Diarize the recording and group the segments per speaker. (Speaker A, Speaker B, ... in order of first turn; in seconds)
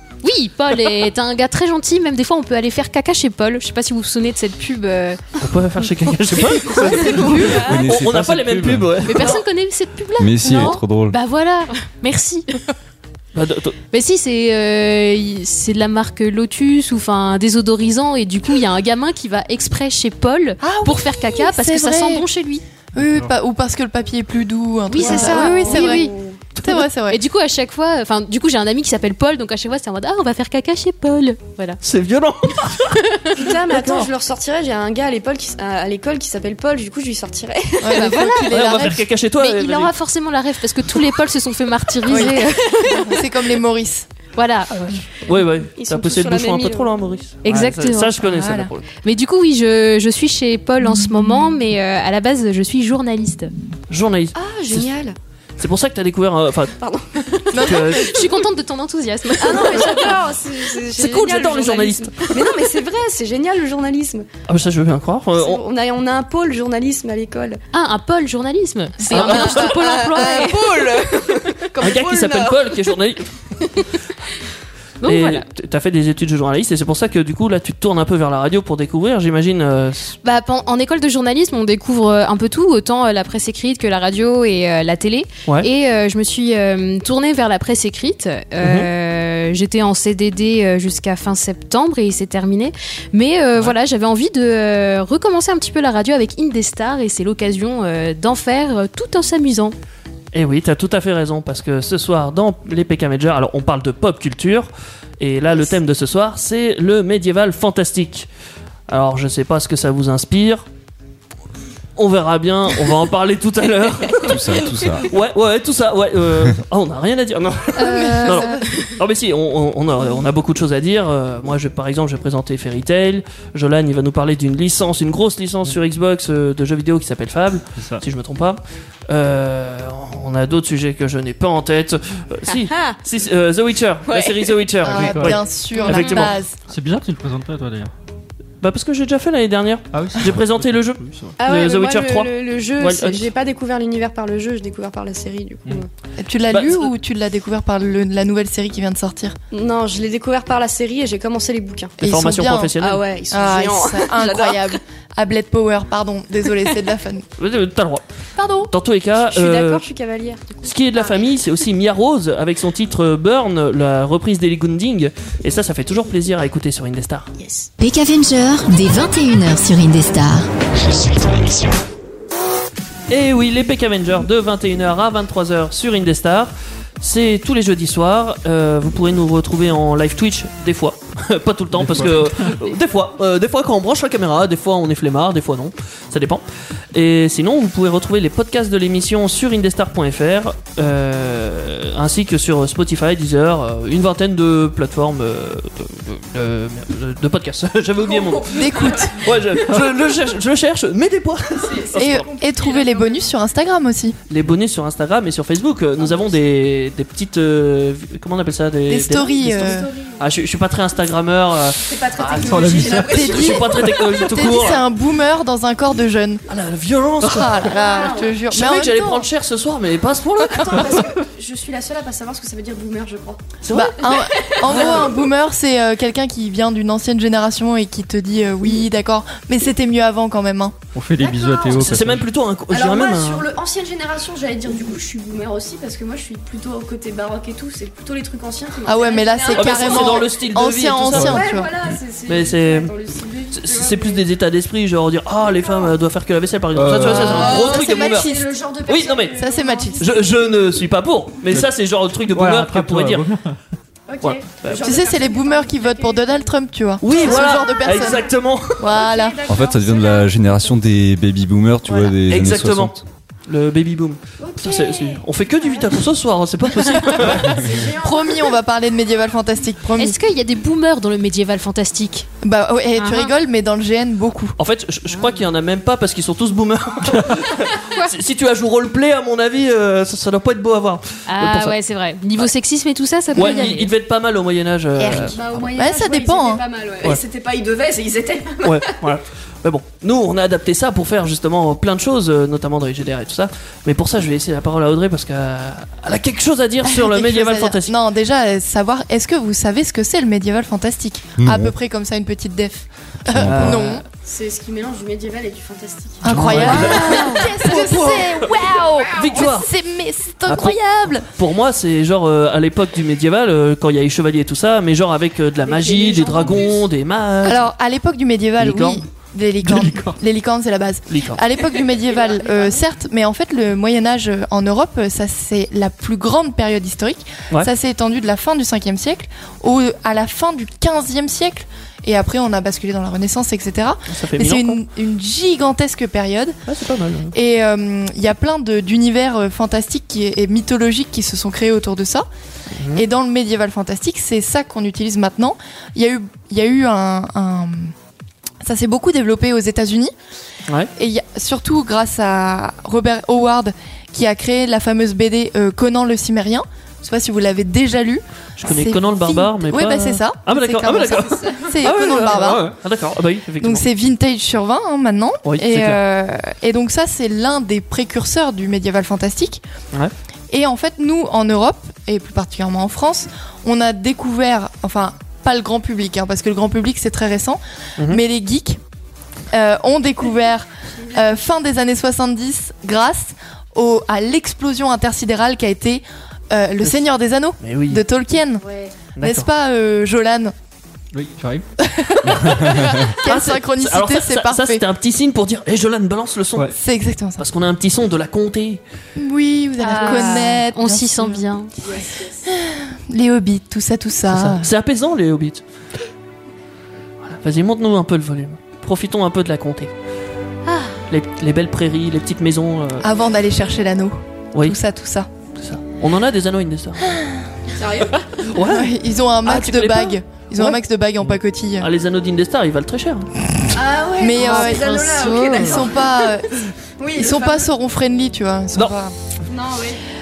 Speaker A: 0.2-5.2, 6.6-7.8, 9.1-12.5, 13.9-22.6, 24.9-26.1, 27.1-31.8, 32.9-33.4, 37.9-43.2, 44.4-45.0, 47.4-48.2, 49.0-53.5, 57.9-60.1, 67.7-70.6, 75.0-75.5, 80.2-99.8, 117.8-118.9, 135.8-136.1, 270.0-272.3, 273.0-273.3, 275.1-275.4, 281.3-283.9, 306.7-307.5, 399.8-401.7, 410.7-411.0
Speaker B: 5.4-9.3, 13.3-13.8, 31.8-33.0, 33.7-34.1, 38.5-39.9, 45.3-48.8, 53.9-54.9, 55.6-56.8, 57.5-58.2, 59.7-59.9, 61.0-62.3, 64.5-65.6, 69.1-70.5, 71.4-73.3, 75.0-80.2, 88.6-88.9, 100.3-108.3, 108.9-110.6, 112.0-136.3, 138.6-143.3, 146.5-146.9, 152.0-153.0, 157.4-158.0, 158.7-159.9, 160.7-167.3, 173.1-202.3, 204.3-214.8, 216.5-221.1, 223.6-225.1, 231.8-233.5, 239.5-241.4, 242.3-242.9, 243.5-249.4, 250.0-253.3, 254.2-255.0, 257.0-258.9, 262.3-267.7, 274.6-281.8, 283.4-285.4, 288.6-297.9, 303.4-304.0, 306.3-308.6, 309.1-309.7, 310.5-310.8, 311.3-317.7, 318.6-319.0, 321.1-321.4, 334.1-334.8, 336.7-337.4, 342.8-343.0, 358.6-363.9, 365.4-366.0, 387.6-388.0, 389.2-389.5, 392.6-396.7, 397.4-398.8, 404.3-405.6, 407.2-409.9, 411.1-413.1, 415.6-417.0, 418.4-418.9, 419.4-423.3
Speaker C: 7.2-9.1, 10.2-11.2, 114.2-115.1, 259.5-263.0, 301.4-301.7, 303.3-303.9
Speaker D: 20.6-22.3, 22.9-26.1, 26.6-27.2, 37.8-39.0, 42.1-44.1, 48.2-48.7, 57.5-58.0, 117.8-118.6, 134.8-136.6, 146.2-149.4, 152.0-152.8, 153.3-157.3, 158.4-158.7, 198.5-199.2, 202.0-204.2, 208.9-209.9, 213.1-216.4, 217.2-219.3, 223.7-230.8, 238.8-241.7, 247.0-248.5, 249.4-250.1, 254.8-259.4, 267.4-270.2, 272.4-274.6, 283.3-283.8, 285.0-286.6, 296.8-304.1, 306.2-311.3, 317.4-336.6, 337.3-342.3, 342.9-347.9, 348.6-350.1, 351.0-362.7, 363.6-369.6, 370.5-378.8, 379.5-388.7, 389.2-390.5, 391.8-394.8, 396.7-397.4, 399.2-401.5, 402.5-404.7, 413.0-415.3, 417.0-417.5, 418.6-421.9, 424.2-426.5, 427.1-429.1
Speaker E: 23.0-23.3, 127.8-128.0, 134.9-135.4, 136.7-137.9, 139.9-141.4, 181.7-182.5, 212.3-213.2, 230.9-232.3, 246.7-247.4, 252.3-253.6, 306.3-306.9, 319.6-320.2, 391.1-391.6
Speaker F: 24.9-26.4, 33.4-38.4, 45.8-47.0, 54.3-55.2, 56.8-58.0, 59.4-64.3, 65.3-67.6, 69.1-73.0, 132.5-133.0, 134.1-134.6, 141.4-145.9, 149.5-152.0, 152.8-154.8, 159.2-161.3, 198.0-199.2, 201.6-203.3, 206.0-206.3, 209.4-210.2, 211.8-214.1, 217.6-218.6, 220.4-223.4, 224.1-225.1, 231.2-232.0, 232.7-240.4, 241.1-244.2, 245.4-245.9, 247.2-250.9, 254.1-256.6, 257.1-258.2, 258.8-260.7, 264.4-266.0, 267.0-268.6, 285.3-289.0, 304.2-307.3, 308.6-309.5, 315.6-316.9, 321.8-322.9, 361.3-361.7, 388.6-388.9, 399.9-400.5, 401.8-402.4, 417.8-418.4, 423.8-426.3, 427.0-427.7, 429.5-430.0
Speaker G: 167.8-170.5, 171.0-171.4